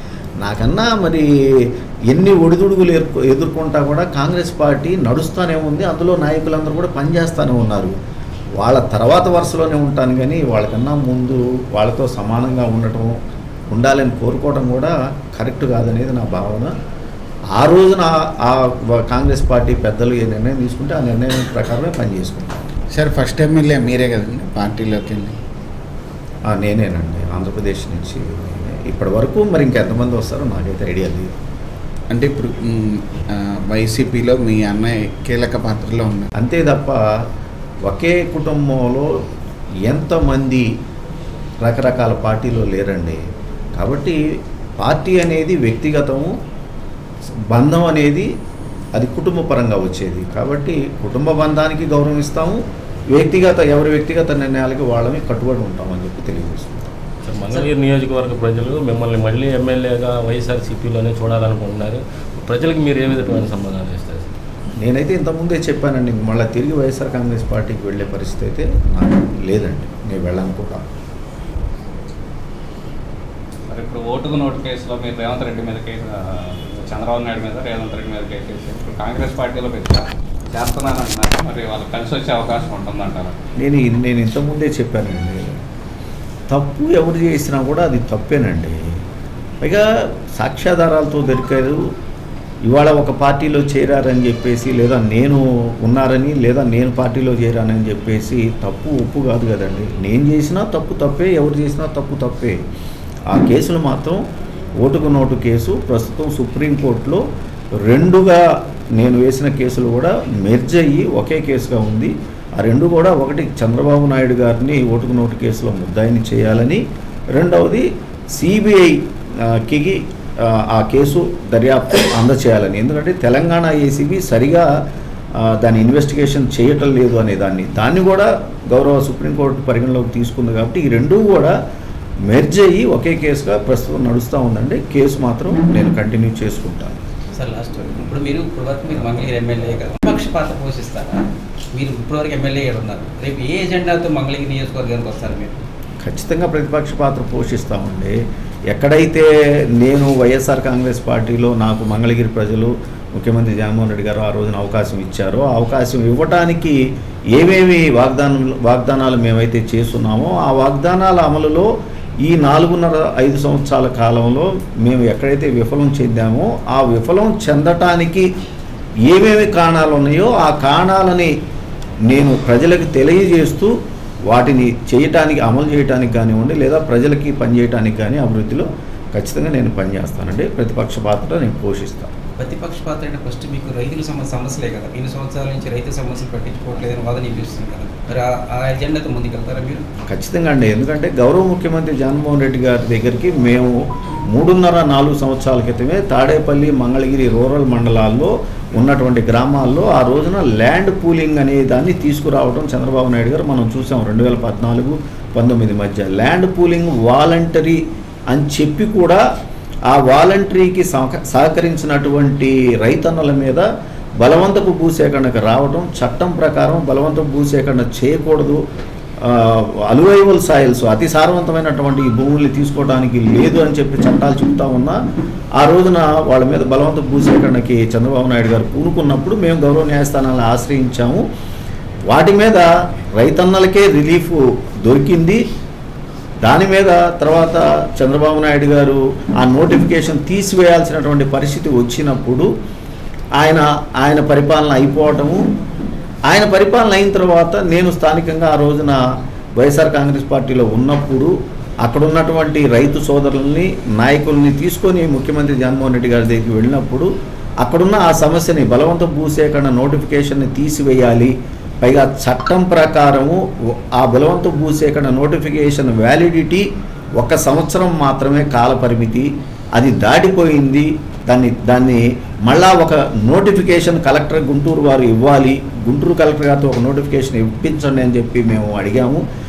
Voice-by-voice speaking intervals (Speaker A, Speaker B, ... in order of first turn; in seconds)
Speaker A: 0.4-8.0, 8.6-13.2, 13.7-16.7, 17.6-22.7, 26.5-31.3, 36.4-37.0, 37.9-39.1, 39.9-40.7, 41.6-43.2, 43.8-46.4, 47.5-48.3, 48.9-52.6, 53.1-56.9, 64.8-70.8, 83.6-85.6, 86.5-88.8, 89.6-91.9, 92.7-102.6, 103.3-104.2, 104.8-107.2, 107.8-116.8, 117.3-124.7, 125.4-131.5, 132.3-137.0, 146.0-148.2, 148.7-156.8, 157.3-161.7, 162.2-168.3, 169.1-171.3, 172.1-173.7, 174.3-182.1, 190.1-193.8, 194.3-207.8, 208.3-209.2, 209.9-213.7, 214.2-218.6, 219.2-225.0, 225.6-231.2, 232.1-235.4, 236.4-242.5, 243.4-245.4, 246.3-249.0, 249.6-257.1, 257.6-279.2
Speaker B: 22.9-25.4, 32.1-36.3
Speaker C: 57.2-64.3
Speaker D: 73.7-83.3
Speaker E: 137.3-145.6, 182.4-189.8